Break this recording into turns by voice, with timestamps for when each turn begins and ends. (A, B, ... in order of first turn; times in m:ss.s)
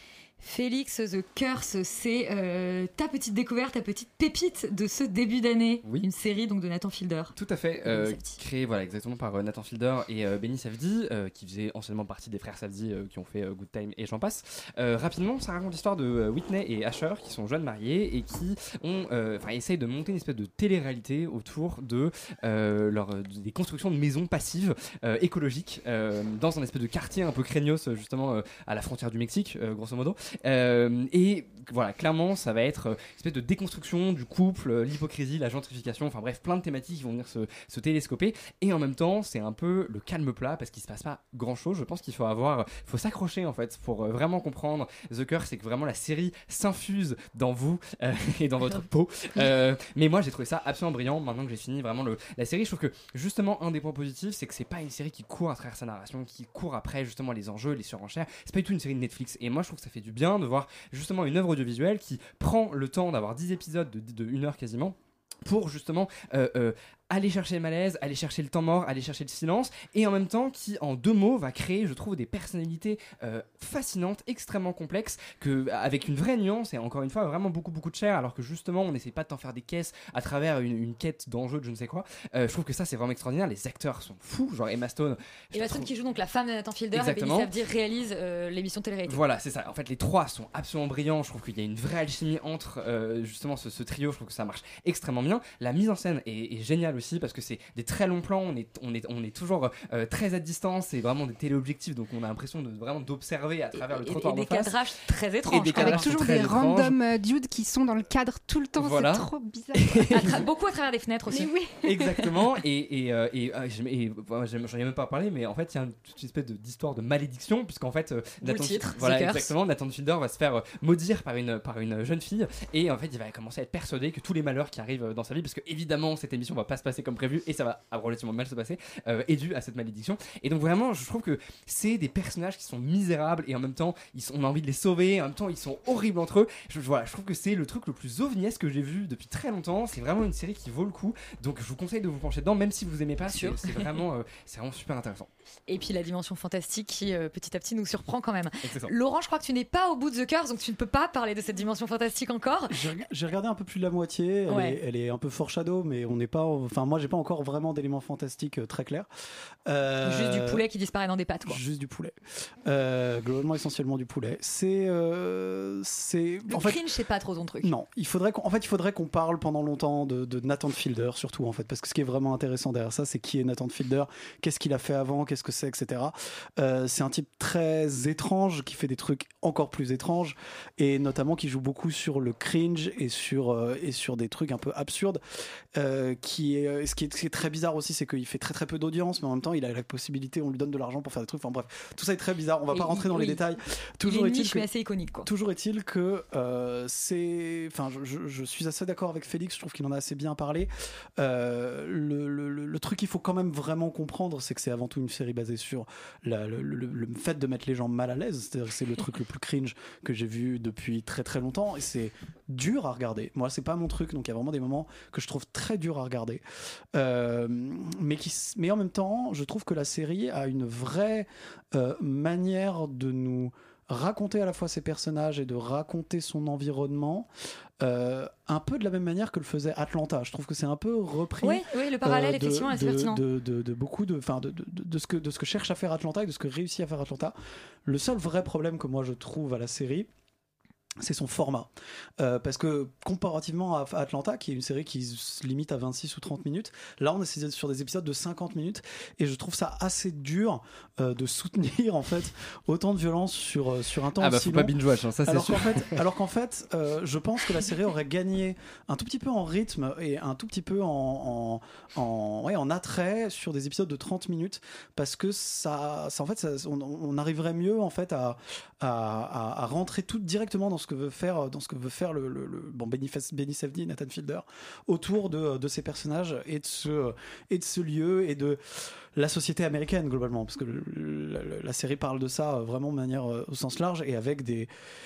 0:00.4-0:07.4 A
0:07.4-1:25.9 B
0:07.9-0:08.4 A
1:25.5-1:29.2 A
1:26.9-1:27.5 B
1:29.1-1:44.8 B
1:43.7-1:46.1 A
1:45.5-1:47.0 B
1:45.8-1:50.4 C
1:48.8-1:49.3 B
1:49.8-1:50.5 B
1:50.1-1:51.5 A
1:51.3-1:52.2 C
1:51.8-2:25.3 B
1:58.4-1:59.5 A
2:23.3-2:23.9 A
2:25.7-2:32.8 A
2:28.6-2:28.9 B
2:32.7-2:39.1 D
2:34.5-2:34.8 A
2:39.7-2:40.6 D
2:40.0-2:41.6 A
2:41.5-2:46.8 D
2:46.5-2:47.7 A
2:47.6-3:05.2 D
3:05.8-3:14.7 D
3:12.7-3:13.4 A
3:14.0-3:15.3 A
3:15.2-3:36.4 D
3:36.9-3:47.3 D
3:47.8-4:00.1 D
3:51.4-3:53.2 A
4:01.0-4:38.6 D
4:14.2-4:15.7 B
4:39.2-4:44.7 D